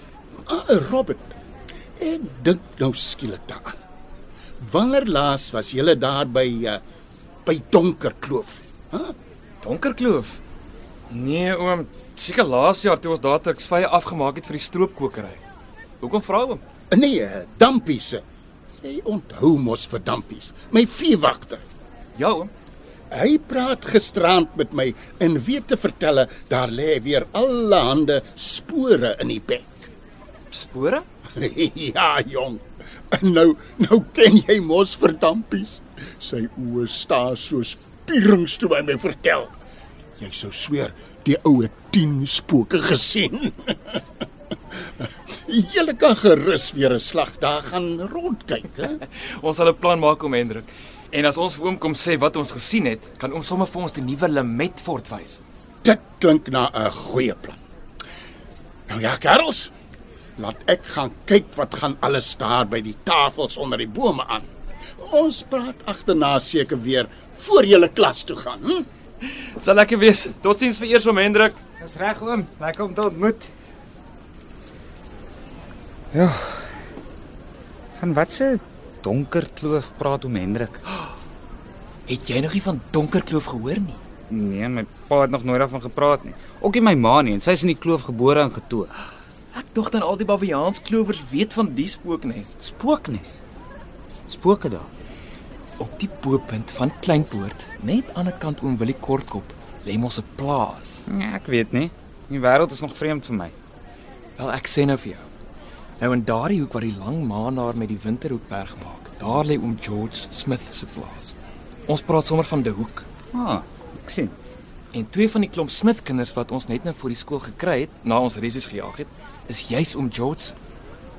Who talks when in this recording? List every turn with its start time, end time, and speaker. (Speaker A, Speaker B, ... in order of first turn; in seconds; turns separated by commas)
Speaker A: 0.5-1.3, Speaker A: 2.0-3.8, Speaker A: 4.6-6.8, Speaker A: 7.5-9.1, Speaker B: 9.6-10.4, Speaker B: 11.1-15.4, Speaker B: 16.0-16.6, Speaker A: 16.9-18.2, Speaker A: 18.8-21.6, Speaker B: 22.1-22.5, Speaker A: 23.1-29.9, Speaker B: 30.5-31.0, Speaker A: 31.4-39.5, Speaker A: 40.2-44.0, Speaker A: 44.8-49.0, Speaker B: 49.2-55.4, Speaker A: 55.8-57.6, Speaker A: 58.9-59.7, Speaker A: 60.4-68.8, Speaker B: 69.3-71.6, Speaker C: 71.8-73.5, Speaker C: 76.1-76.7, Speaker C: 78.0-80.8, Speaker B: 82.1-84.0, Speaker C: 84.3-88.9, Speaker B: 89.5-92.6, Speaker C: 92.6-93.4, Speaker C: 94.3-94.9, Speaker B: 95.8-101.1, Speaker C: 101.1-103.5, Speaker B: 104.4-105.3, Speaker B: 106.0-111.3, Speaker B: 111.9-113.0, Speaker C: 113.3-114.3, Speaker B: 114.9-120.5